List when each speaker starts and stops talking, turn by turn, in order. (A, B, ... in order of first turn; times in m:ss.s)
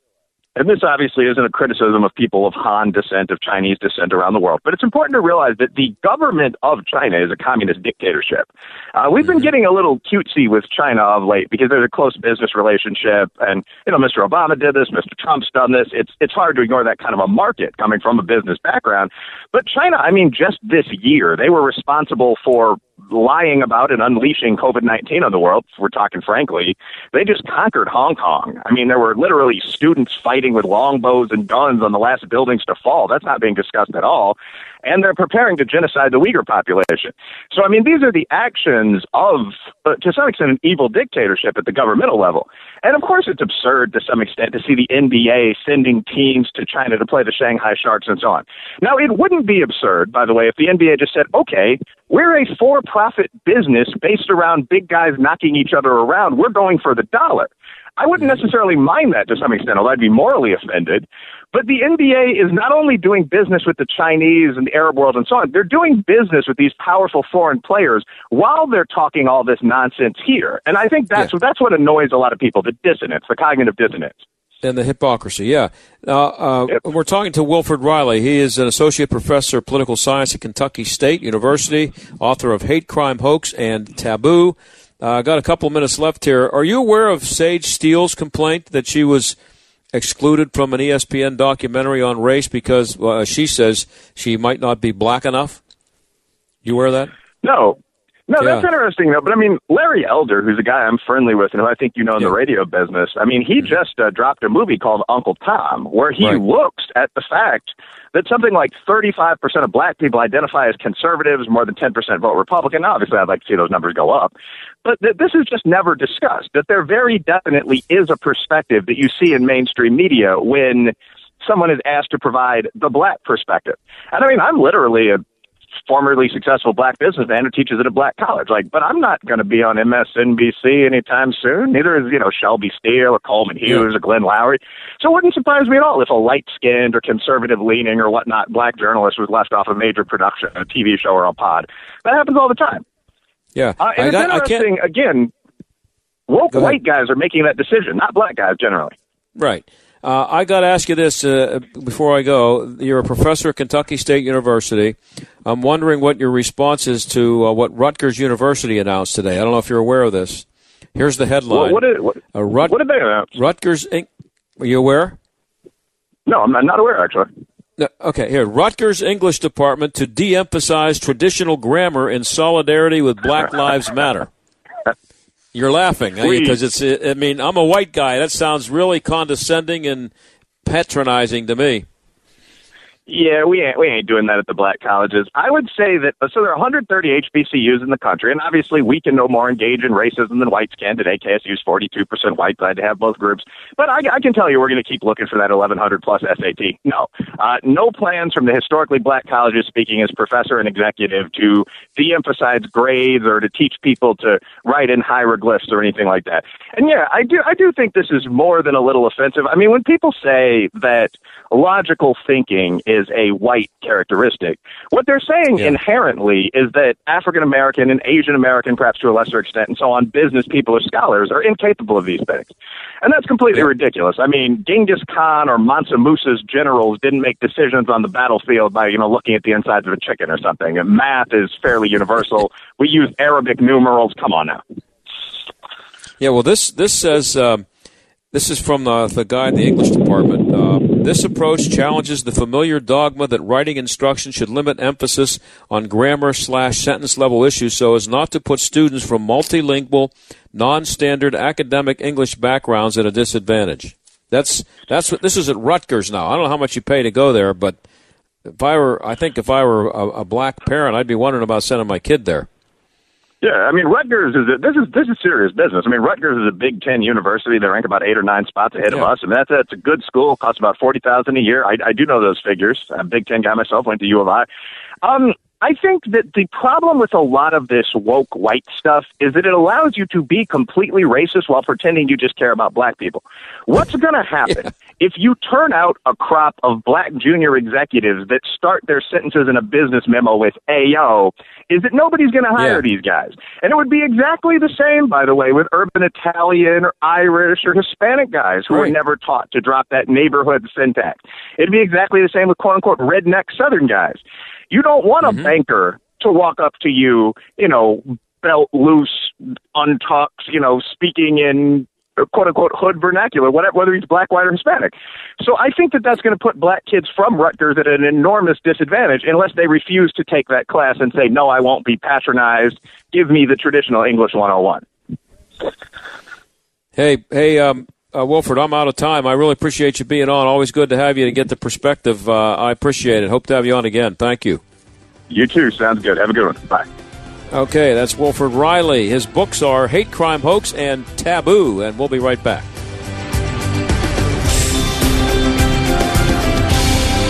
0:00.6-1:14.2 A
1:14.6-1:29.4 B
1:29.9-1:35.6 B
1:36.6-1:37.1 B
1:37.4-1:37.8 A
1:38.3-1:54.3 A
1:38.4-1:38.7 B
1:54.8-2:05.2 A
2:05.9-2:22.8 A
2:23.5-2:24.7 B
2:23.8-2:25.3 A
2:26.3-2:28.9 A
2:26.5-2:26.8 B
2:29.4-2:42.8 B
2:41.5-2:43.3 A
2:43.3-2:44.1 B
2:44.6-2:45.2 B
2:46.3-2:47.3 A
2:47.8-2:54.3 B
2:55.5-3:00.1 B
2:56.2-2:56.6 A
3:00.6-3:01.8 B
3:03.1-3:54.6 A
3:56.2-3:57.6 B
3:58.3-4:17.8 B
4:18.5-4:22.5 B
4:23.4-4:34.5 A
4:35.0-5:24.8 A
4:52.6-4:52.8 B
5:05.2-5:05.5 B
5:27.0-5:34.6 B
5:35.3-5:36.8 A
5:37.5-5:42.7 B